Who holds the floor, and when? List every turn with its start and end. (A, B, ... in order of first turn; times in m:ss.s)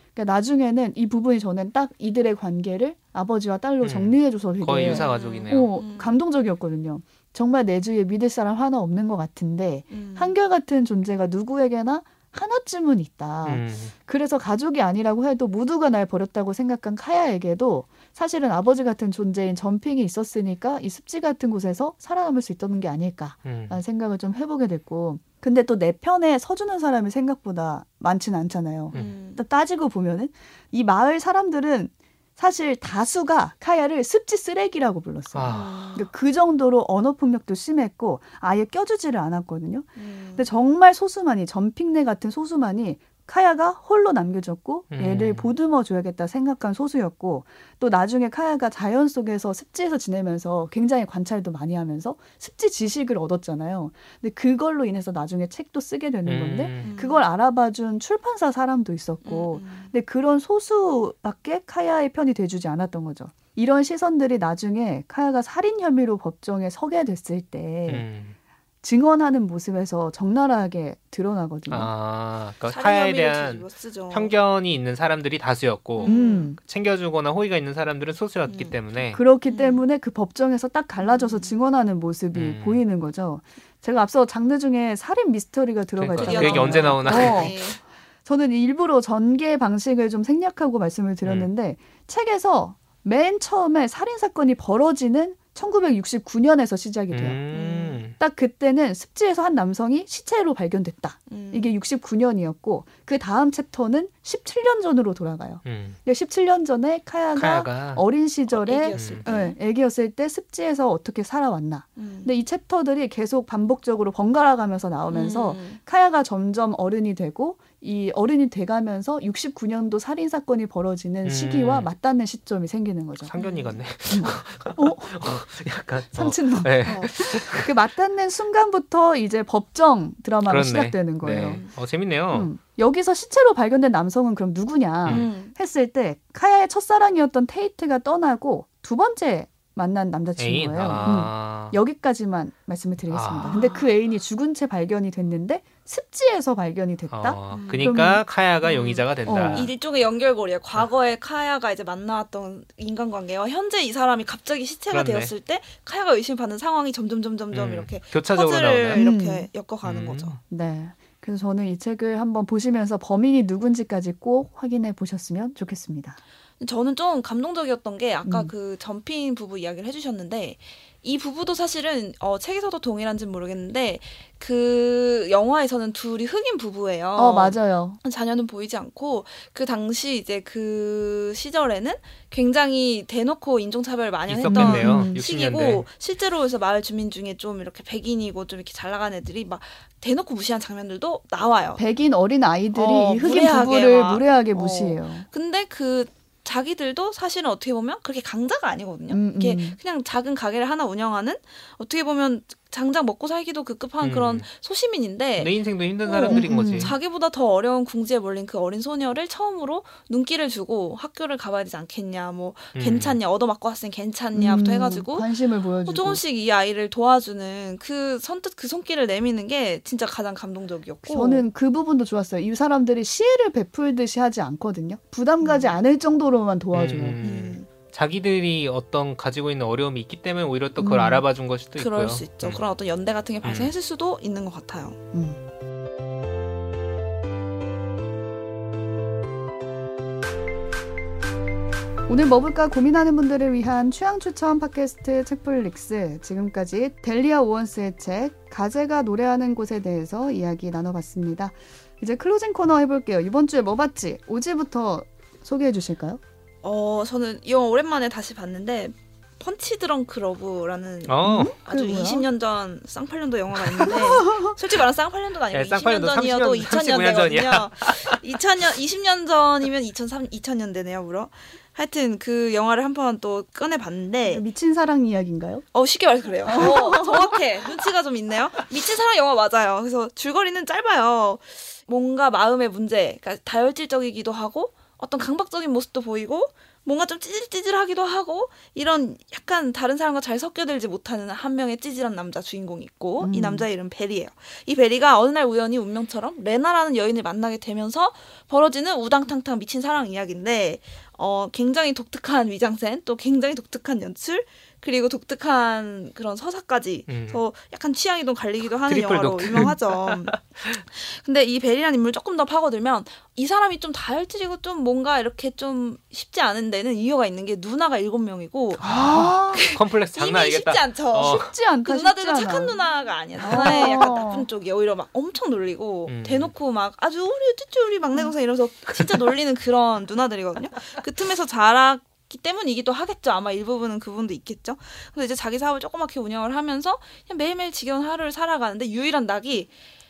0:00.2-1:08.0 A
0:03.8-0:05.7 B
0:04.8-0:06.2 C
0:09.9-0:10.4 C
0:13.4-0:13.9 B
0:23.4-0:23.8 B
0:28.9-0:29.4 C
0:35.3-0:35.8 B
0:35.5-0:36.1 C
0:40.0-0:40.5 C
0:44.9-0:45.5 B
0:56.2-0:56.9 B
0:56.8-0:57.2 C
0:59.2-0:59.9 C
1:07.9-1:08.3 B
1:08.8-1:11.9 A
1:11.7-1:19.2 B
1:12.7-1:14.3 C
1:16.0-1:16.5 C
1:16.0-1:16.6 A
1:18.5-1:18.8 C
1:19.1-1:27.6 A
1:19.5-1:19.8 C
1:21.0-1:21.5 C
1:22.3-1:22.8 B
1:26.0-1:27.8 B
1:26.1-1:27.8 C
1:28.2-1:37.4 A
1:31.2-1:31.5 B
1:37.1-1:38.2 B
1:37.5-1:38.0 C
1:38.2-2:03.3 A
1:41.3-1:41.7 C
1:45.6-1:46.0 B
1:47.3-1:48.0 B
1:48.5-1:49.6 C
1:48.9-1:49.2 B
1:52.0-1:52.3 C
1:55.1-1:55.8 C
2:01.2-2:01.9 B
2:03.2-2:07.7 B
2:03.4-2:03.8 C
2:04.1-2:05.3 A
2:06.1-2:11.6 A
2:06.8-2:07.1 C
2:10.5-2:12.5 B
2:12.3-2:28.2 A
2:15.0-2:15.3 B
2:15.1-2:15.5 C
2:20.4-2:21.8 B
2:23.1-2:23.6 B
2:23.5-2:23.9 C
2:27.1-2:29.7 B
2:27.5-2:27.9 C
2:28.6-2:40.3 C
2:29.2-2:29.7 A
2:34.9-2:35.3 B
2:37.5-2:39.0 B
2:38.9-2:39.5 A
2:39.8-2:40.4 B
2:40.5-2:46.2 A
2:46.6-3:11.8 C
2:48.2-2:48.5 A
2:57.2-2:58.0 A
3:04.3-3:05.8 B
3:04.5-3:05.2 A
3:11.8-3:15.2 A
3:12.7-3:41.5 C
3:19.1-3:19.8 A
3:24.0-3:24.5 B
3:25.4-3:27.0 B
3:26.2-3:27.0 A
3:32.8-3:33.2 B
3:34.4-3:36.2 A
3:41.0-3:47.2 A
3:45.4-3:45.7 C
3:46.7-3:52.6 B
3:47.2-3:47.7 C
3:50.8-3:51.2 A
3:51.8-3:55.0 C
3:53.4-3:53.7 B
3:55.1-3:55.4 A
4:02.1-4:16.2 A
4:16.6-4:34.4 C
4:21.1-4:21.5 B
4:21.2-4:22.3 A
4:23.8-4:24.5 A
4:25.5-4:28.2 B
4:34.2-4:35.6 A
4:35.7-5:39.7 C
4:36.5-4:37.3 A
4:53.2-4:53.7 A
5:07.1-5:07.4 B
5:08.8-5:10.8 B
5:18.8-5:19.7 A
5:18.8-5:21.5 B
5:21.2-5:22.8 A
5:23.4-5:24.5 A
5:26.1-5:26.5 B